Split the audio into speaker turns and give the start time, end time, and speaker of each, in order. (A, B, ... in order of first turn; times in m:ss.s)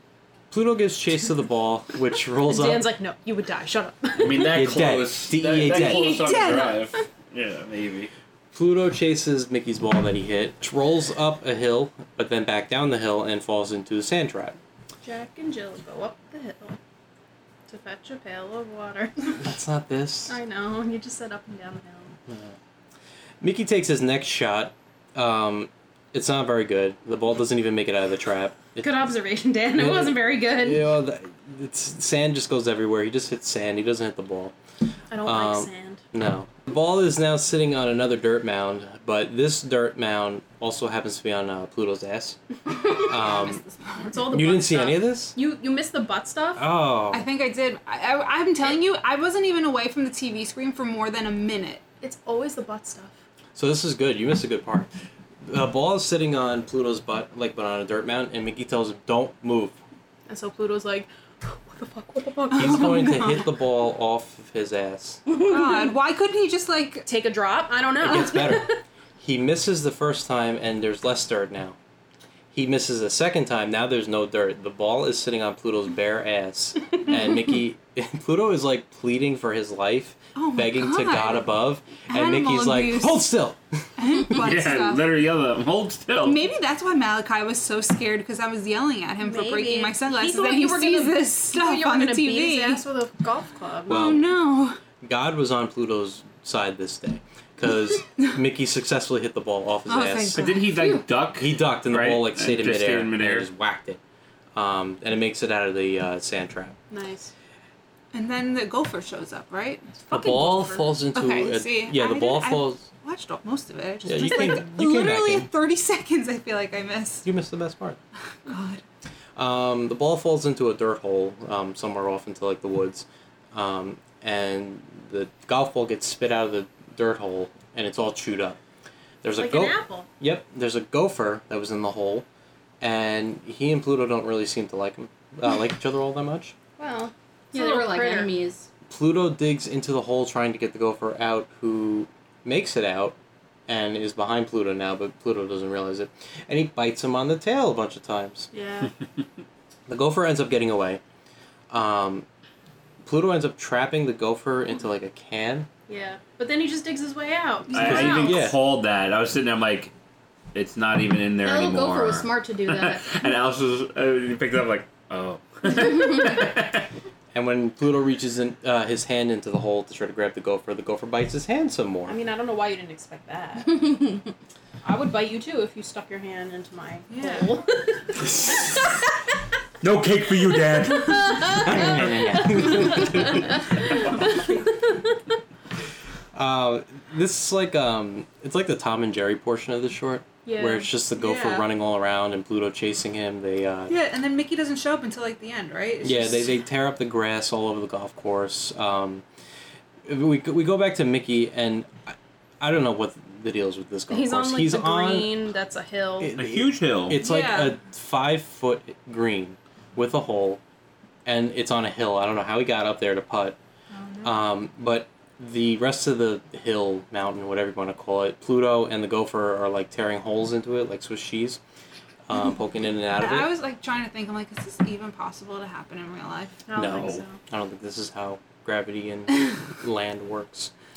0:00.5-0:02.9 A
0:02.5-0:04.8 B
0:04.2-0:08.1 C
0:04.5-0:06.3 A
0:05.6-0:07.0 D
0:08.5-0:14.6 A
0:15.0-0:16.8 B
0:17.7-0:19.5 B
0:19.4-0:20.4 A
0:20.3-0:22.1 B
0:22.3-0:22.6 A
0:23.4-0:29.0 A
0:28.8-0:30.9 B
0:29.7-0:34.5 A
0:35.1-0:36.0 B
0:35.2-0:42.4 A
0:43.0-0:43.6 A
0:43.1-0:44.3 D
0:44.0-0:46.6 B
0:44.3-0:45.4 A
0:46.6-0:47.3 A
0:47.1-0:51.8 D
0:52.0-0:53.2 B
0:53.6-0:54.9 A
0:55.4-0:59.8 A
1:00.3-1:03.4 B
1:02.5-1:05.2 A
1:02.8-1:03.3 D
1:05.3-1:05.9 B
1:05.5-1:07.1 D
1:07.1-1:08.8 B
1:08.0-1:11.8 A
1:12.5-1:23.8 A
1:20.4-1:21.5 D
1:22.1-1:23.3 D
1:24.0-1:25.2 D
1:24.3-1:26.4 C
1:26.2-1:32.8 D
1:29.2-1:34.1 B
1:33.9-1:34.8 D
1:33.9-1:34.3 A
1:35.0-1:40.5 A
1:39.9-1:40.7 D
1:40.4-1:43.5 C
1:41.4-1:44.0 A
1:44.6-1:46.8 A
1:46.9-1:47.3 B
1:48.1-1:57.3 D
1:50.1-1:50.8 B
1:50.1-1:52.8 A
1:54.0-1:55.5 A
1:57.2-1:58.0 A
1:58.5-1:58.8 D
1:59.4-2:08.6 A
2:09.2-2:12.3 A
2:09.4-2:10.1 B
2:12.8-2:16.6 A
2:16.8-2:18.3 B
2:17.5-2:18.7 E
2:18.9-2:23.2 A
2:23.7-2:28.5 A
2:28.5-2:28.9 B
2:29.9-2:31.0 A
2:31.7-2:32.3 A
2:33.0-2:35.7 A
2:35.9-2:38.4 B
2:37.7-2:38.4 D
2:37.7-2:39.9 C
2:37.8-2:38.6 A
2:40.5-2:46.9 C
2:41.4-2:43.1 E
2:47.3-2:52.2 A
2:52.1-2:53.8 B
2:54.8-2:58.8 B
2:57.1-2:57.6 D
2:59.8-3:01.8 C
3:01.1-3:03.1 B
3:01.6-3:03.4 A
3:04.3-3:04.6 B
3:06.3-3:14.0 A
3:10.4-3:11.6 B
3:13.9-3:16.6 D
3:16.0-3:19.2 A
3:20.1-3:25.4 A
3:24.1-3:26.3 B
3:26.2-3:30.6 A
3:26.4-3:27.2 C
3:27.1-3:27.8 D
3:31.2-3:33.6 A
3:33.9-3:34.4 D
3:34.2-3:41.6 A
3:42.3-3:43.5 A
3:43.1-3:46.6 D
3:46.7-3:47.4 B
3:46.8-3:50.7 A
3:46.8-3:47.2 C